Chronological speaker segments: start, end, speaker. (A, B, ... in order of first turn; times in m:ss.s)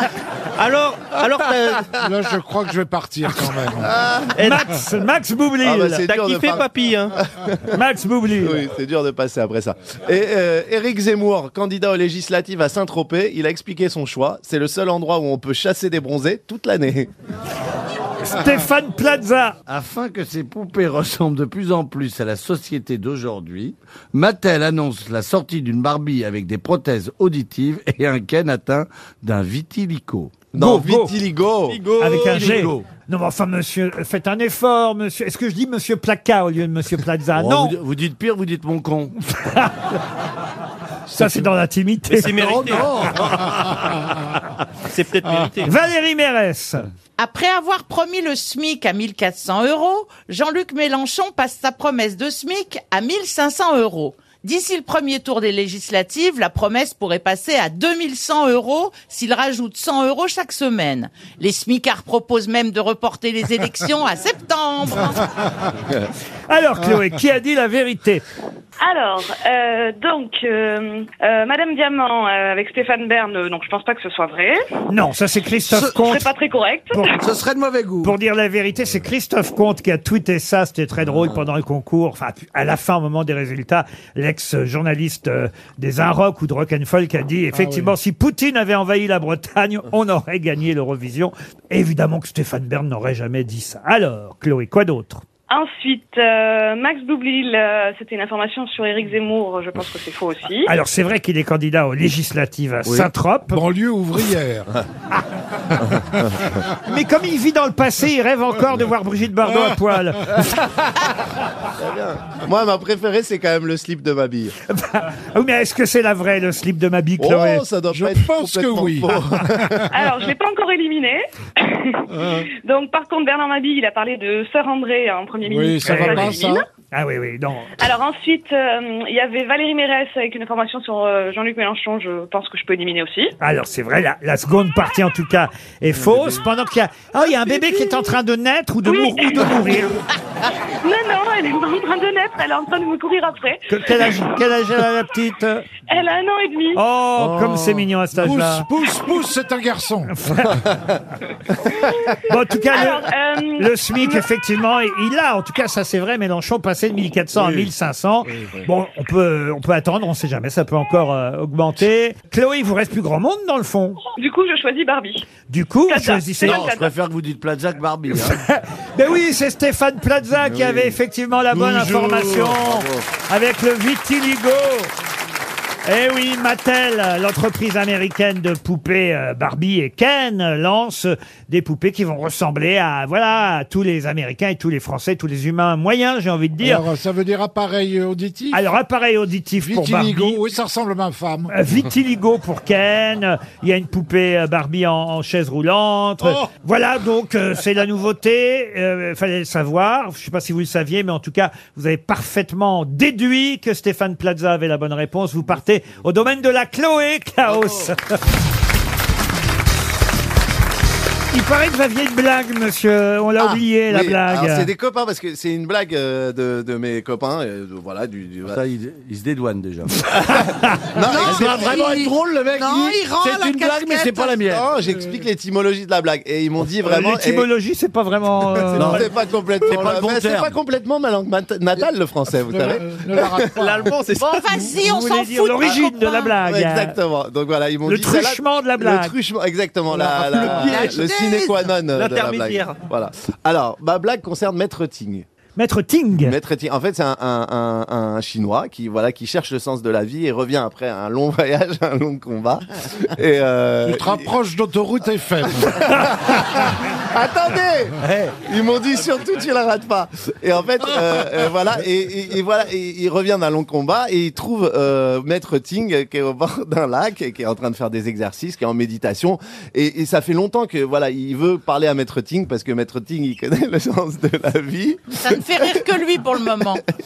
0:00.6-0:01.9 A
0:02.0-0:04.0 B
0:03.8-0:04.3 C
0:04.4-0:04.7 A
0:04.4-0:06.1 D
0:05.6-0:07.7 C
0:06.1-0:07.2 A
0:07.7-0:08.6 D
0:08.4-0:17.1 C
0:18.2-0:19.6 D
0:19.7-0:30.5 E
0:30.5-0:31.9 C
0:30.6-0:31.1 D
0:31.7-0:32.7 A
0:32.0-0:37.8 D
0:32.2-0:32.9 E
0:37.3-0:39.1 E
0:39.2-0:39.9 D
0:41.1-0:42.8 D
0:42.1-0:43.2 A
0:42.4-0:44.1 E
0:44.8-0:45.8 A
0:45.6-0:46.9 D
0:47.2-1:05.2 F
1:06.5-1:08.2 D
1:08.8-1:14.6 G
1:14.9-1:16.3 D
1:15.7-1:16.0 H
1:16.0-1:17.0 G
1:17.1-1:18.1 H
1:18.0-1:35.2 D
1:27.5-1:28.0 B
1:35.5-1:40.7 G
1:40.7-1:43.6 D
1:43.5-1:44.7 B
1:46.8-1:50.6 D
1:51.8-1:54.5 C
1:54.7-1:57.6 D
1:57.2-1:59.8 C
1:57.9-1:59.8 B
1:59.9-2:06.7 G
2:05.4-2:06.6 B
2:05.8-2:07.7 D
2:07.8-2:13.3 G
2:13.4-2:20.0 D
2:17.2-2:18.2 G
2:18.8-2:19.8 G
2:20.8-2:24.2 G
2:23.7-2:25.7 D
2:25.9-2:26.8 G
2:26.8-2:28.7 D
2:27.2-2:27.8 E
2:28.2-2:30.2 B
2:30.1-2:30.6 D
2:32.3-2:33.0 D
2:32.7-2:34.2 G
2:33.6-2:44.0 D
2:37.4-2:37.7 E
2:44.2-2:45.3 G
2:45.5-2:46.7 D
2:45.9-2:46.9 G
2:46.4-2:48.4 E
2:48.2-2:54.9 D
2:50.5-2:50.9 C
2:51.5-2:52.6 E
2:55.9-3:06.8 D
3:06.6-3:08.6 B
3:08.5-3:10.4 D
3:09.6-3:11.5 B
3:11.5-3:28.1 D
3:27.5-3:27.9 C
3:31.3-3:34.7 D
3:33.5-3:38.6 C
3:38.4-3:40.1 E
3:40.1-3:41.7 C
3:40.3-3:40.6 D
3:41.0-3:44.4 H
3:41.1-3:44.7 E
3:44.5-3:47.5 C
3:46.8-3:49.1 D
3:48.7-3:53.5 C
3:48.8-3:49.1 E
3:49.6-3:50.6 E
3:52.5-3:53.9 B
3:53.5-3:54.8 A
3:54.1-3:56.4 F
3:54.8-3:57.0 D
3:56.4-4:05.2 C
3:57.9-3:59.1 D
3:59.9-4:01.7 H
4:00.4-4:01.0 A
4:01.9-4:02.8 A
4:05.6-4:06.4 D
4:06.2-4:14.2 C
4:13.8-4:15.8 B
4:15.6-4:35.8 C
4:18.0-4:18.4 E
4:35.2-4:36.8 F